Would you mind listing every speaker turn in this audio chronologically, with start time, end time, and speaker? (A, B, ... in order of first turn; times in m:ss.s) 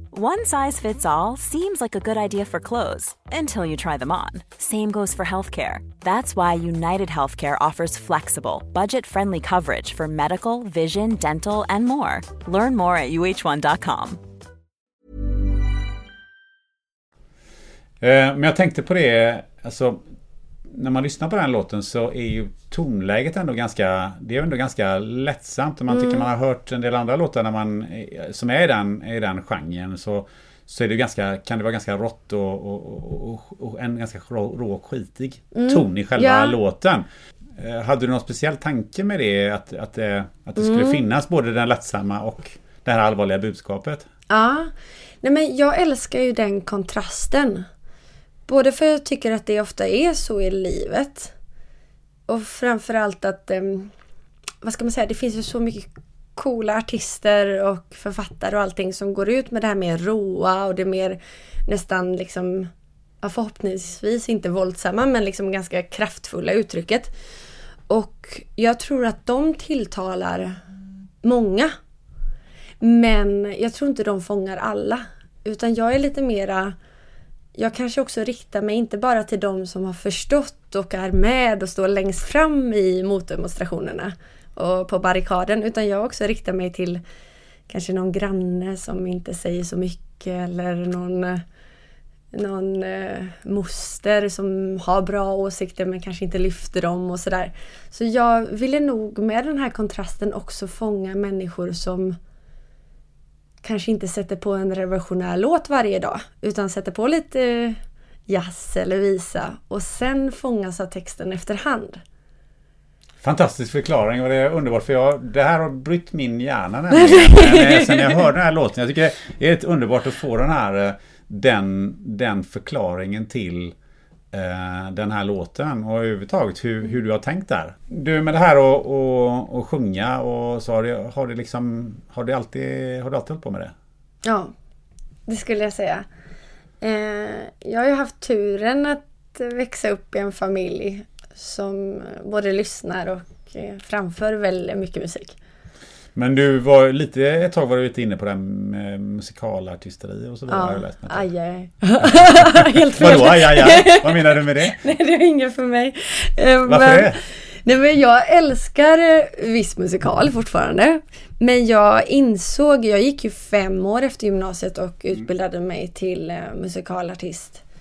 0:00.1-0:14.2 A
0:18.0-0:20.0 B
0:20.7-0:37.1 B
0:25.9-0:26.2 C
0:35.5-0:36.6 C
0:37.6-0:44.1 B
0:40.6-0:41.0 C
0:44.3-0:47.7 C
0:48.5-0:51.3 C
0:52.3-0:53.9 C
0:54.6-1:02.7 C
1:03.2-1:07.1 C
1:07.9-1:10.6 C
1:11.2-1:11.7 C
1:12.8-1:16.8 C
1:17.6-1:27.0 C
1:27.7-1:31.4 C
1:32.3-1:42.2 C
1:43.6-1:52.0 C
1:53.2-2:03.8 B
1:56.9-1:58.2 C
2:04.3-2:13.7 B
2:14.2-2:14.5 C
2:15.3-2:16.1 C
2:16.8-2:25.4 C
2:26.2-2:31.3 B
2:30.5-2:47.6 C
2:32.0-2:34.8 B
2:36.6-2:37.2 B